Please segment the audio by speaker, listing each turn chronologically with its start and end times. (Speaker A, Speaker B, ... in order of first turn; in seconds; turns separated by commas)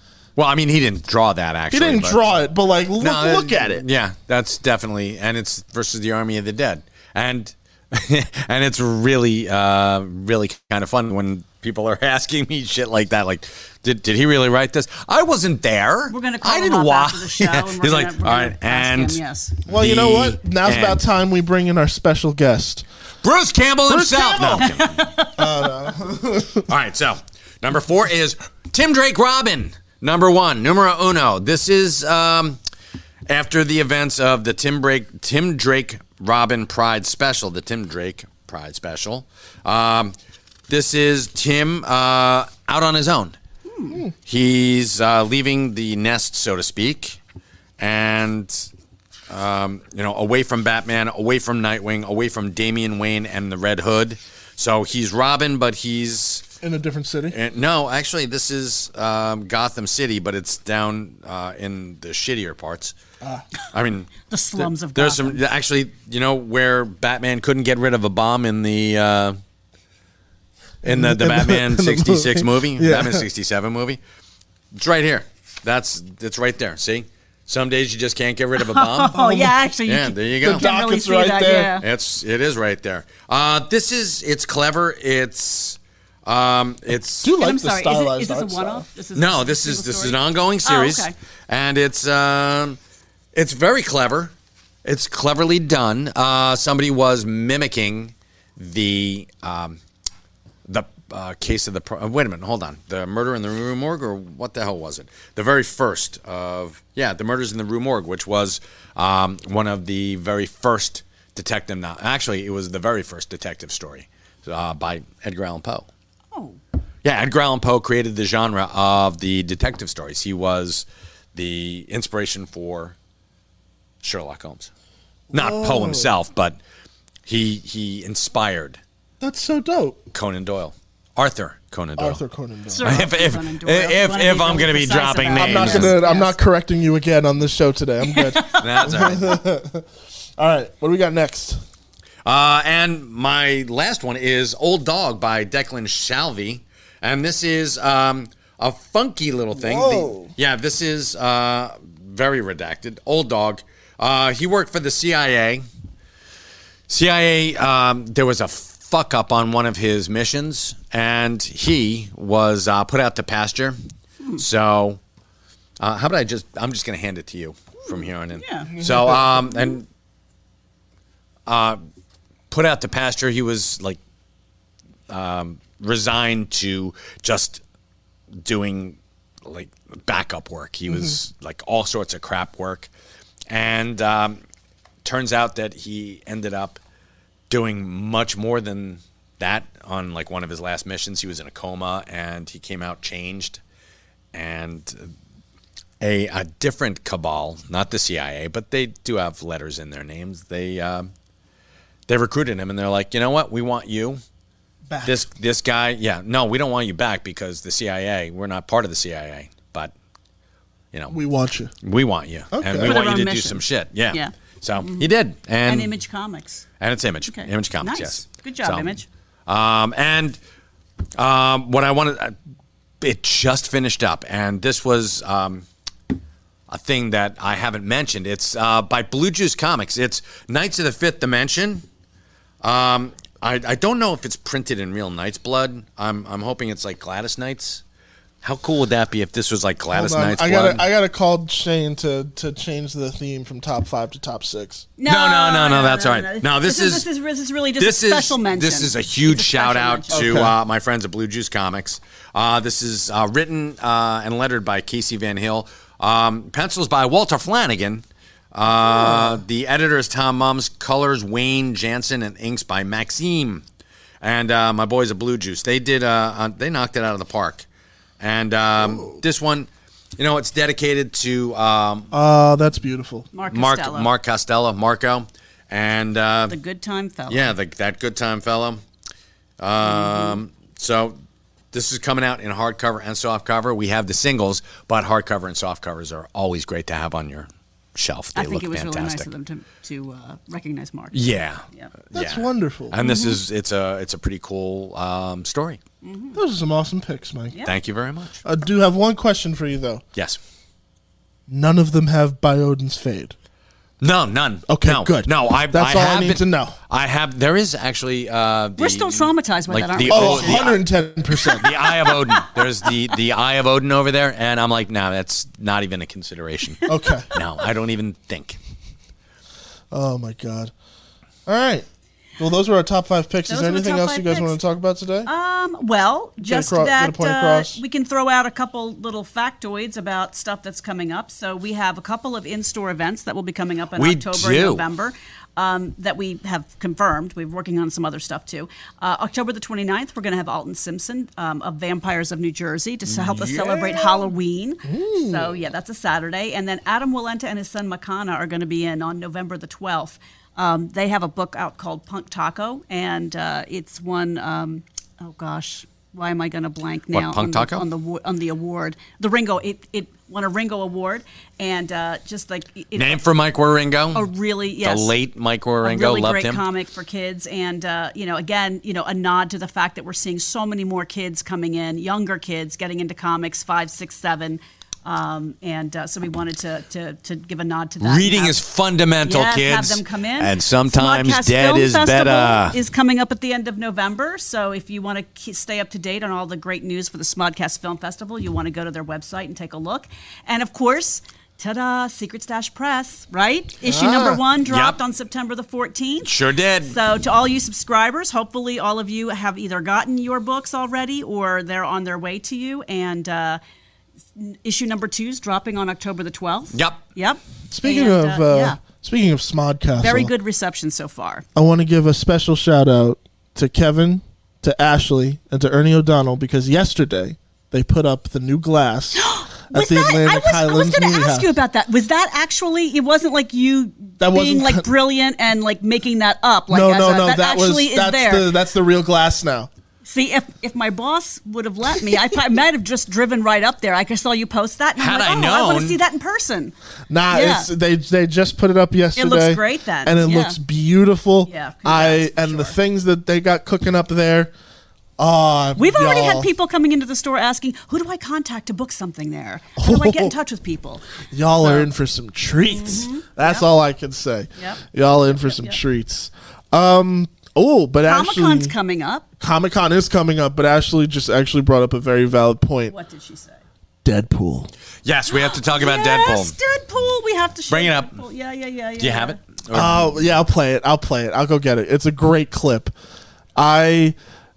Speaker A: 0.4-2.2, Speaker B: 1.7-3.8, Speaker A: 3.0-21.0, Speaker C: 16.1-19.5, Speaker B: 19.7-22.9, Speaker A: 23.2-25.0, Speaker B: 23.9-24.7, Speaker C: 24.6-25.4, Speaker B: 25.4-26.7, Speaker A: 26.7-32.6, Speaker A: 33.3-40.1, Speaker A: 40.7-43.4, Speaker C: 43.7-44.0, Speaker A: 44.2-47.2, Speaker A: 47.8-48.7, Speaker A: 49.3-56.4, Speaker B: 56.6-57.4, Speaker A: 57.3-62.9, Speaker A: 63.7-69.4, Speaker C: 64.3-65.4, Speaker B: 70.8-73.2, Speaker A: 70.8-74.0, Speaker A: 74.7-79.2, Speaker C: 78.6-81.8, Speaker B: 79.1-79.5, Speaker A: 79.8-80.7, Speaker B: 80.4-81.8, Speaker A: 81.8-87.3, Speaker B: 87.2-88.9, Speaker C: 87.3-91.1, Speaker A: 89.1-92.8, Speaker A: 93.3-94.3, Speaker A: 94.8-99.8, Speaker A: 100.7-115.9, Speaker C: 116.3-116.6, Speaker A: 117.0-122.9, Speaker A: 124.0-124.7, Speaker B: 125.3-126.1, Speaker A: 125.3-126.6, Speaker A: 127.2-128.8, Speaker B: 129.2-130.0, Speaker A: 130.1-132.2, Speaker B: 132.0-133.1, Speaker C: 132.7-136.3, Speaker A: 132.8-135.9, Speaker B: 135.3-139.8, Speaker C: 138.0-139.0, Speaker A: 138.6-139.4, Speaker B: 140.4-141.6, Speaker A: 142.2-155.6, Speaker B: 149.5-150.3, Speaker A: 156.9-163.8, Speaker A: 164.4-165.0, Speaker A: 165.8-169.9, Speaker C: 168.3-168.7, Speaker B: 168.7-169.6, Speaker A: 171.5-171.8, Speaker A: 172.5-174.0, Speaker A: 175.1-177.6, Speaker A: 178.4-182.9, Speaker A: 183.5-184.4, Speaker A: 185.0-186.8, Speaker A: 187.5-193.6, Speaker A: 194.3-195.1, Speaker A: 196.0-201.1, Speaker A: 202.1-204.2, Speaker B: 204.9-205.2, Speaker A: 205.0-209.9, Speaker B: 211.1-211.7, Speaker A: 211.8-215.9, Speaker B: 212.5-212.9, Speaker C: 212.8-215.1, Speaker C: 215.6-216.6, Speaker A: 216.8-220.4, Speaker C: 217.3-219.1, Speaker A: 221.2-222.3, Speaker A: 223.0-225.6, Speaker A: 226.7-231.8, Speaker A: 232.6-237.8, Speaker A: 238.4-240.8, Speaker B: 239.9-244.9, Speaker C: 245.0-250.2, Speaker A: 245.1-247.1, Speaker A: 247.8-263.6, Speaker B: 250.1-250.5, Speaker B: 259.0-259.3, Speaker A: 264.2-267.6, Speaker A: 268.2-272.1, Speaker B: 268.8-269.2, Speaker B: 272.1-273.3, Speaker C: 273.3-274.1, Speaker A: 273.5-276.6, Speaker C: 276.5-277.5, Speaker A: 277.3-278.8, Speaker A: 279.6-281.1, Speaker C: 279.8-280.4, Speaker A: 281.7-289.3, Speaker C: 288.3-291.9, Speaker A: 291.1-295.8, Speaker B: 292.1-293.0, Speaker C: 293.0-293.4, Speaker C: 296.0-296.4, Speaker B: 296.3-297.6, Speaker A: 297.6-298.4, Speaker B: 298.4-300.0, Speaker B: 301.5-303.3, Speaker A: 304.0-310.8, Speaker B: 304.7-306.8, Speaker C: 308.8-310.7, Speaker B: 310.0-311.8, Speaker C: 311.4-312.9, Speaker A: 311.6-318.6, Speaker B: 316.9-317.3, Speaker B: 319.9-320.7, Speaker B: 321.4-321.9, Speaker B: 322.4-325.3, Speaker C: 323.5-324.6, Speaker C: 325.2-363.2, Speaker B: 326.4-327.8, Speaker A: 333.9-334.8, Speaker A: 343.1-344.2, Speaker B: 344.8-345.6, Speaker A: 357.1-357.8, Speaker A: 362.9-364.3, Speaker C: 364.1-365.1, Speaker A: 364.8-366.6, Speaker C: 365.8-378.6, Speaker A: 378.0-382.8, Speaker C: 379.2-396.3, Speaker B: 393.8-394.4, Speaker A: 394.6-395.0, Speaker A: 396.2-396.9, Speaker C: 396.8-403.6, Speaker C: 404.4-408.8, Speaker A: 406.7-407.0, Speaker B: 407.7-410.3, Speaker C: 410.0-411.4, Speaker B: 411.5-421.5, Speaker C: 419.1-428.5, Speaker B: 424.2-424.9, Speaker B: 426.7-429.7, Speaker C: 430.0-436.7, Speaker A: 435.0-436.0, Speaker B: 437.1-444.5, Speaker C: 437.3-437.7, Speaker C: 439.1-440.6, Speaker C: 441.4-442.8, Speaker B: 445.2-446.5, Speaker C: 445.8-451.0, Speaker B: 449.8-450.3, Speaker B: 451.3-458.7, Speaker C: 451.6-451.9, Speaker C: 452.7-453.7, Speaker C: 454.6-455.8, Speaker C: 458.0-459.2, Speaker B: 459.4-462.9, Speaker C: 462.9-463.6, Speaker B: 464.0-464.7, Speaker A: 465.0-466.5, Speaker C: 465.3-469.4, Speaker A: 467.7-468.2, Speaker A: 469.0-470.2, Speaker B: 469.7-472.9, Speaker B: 473.6-474.1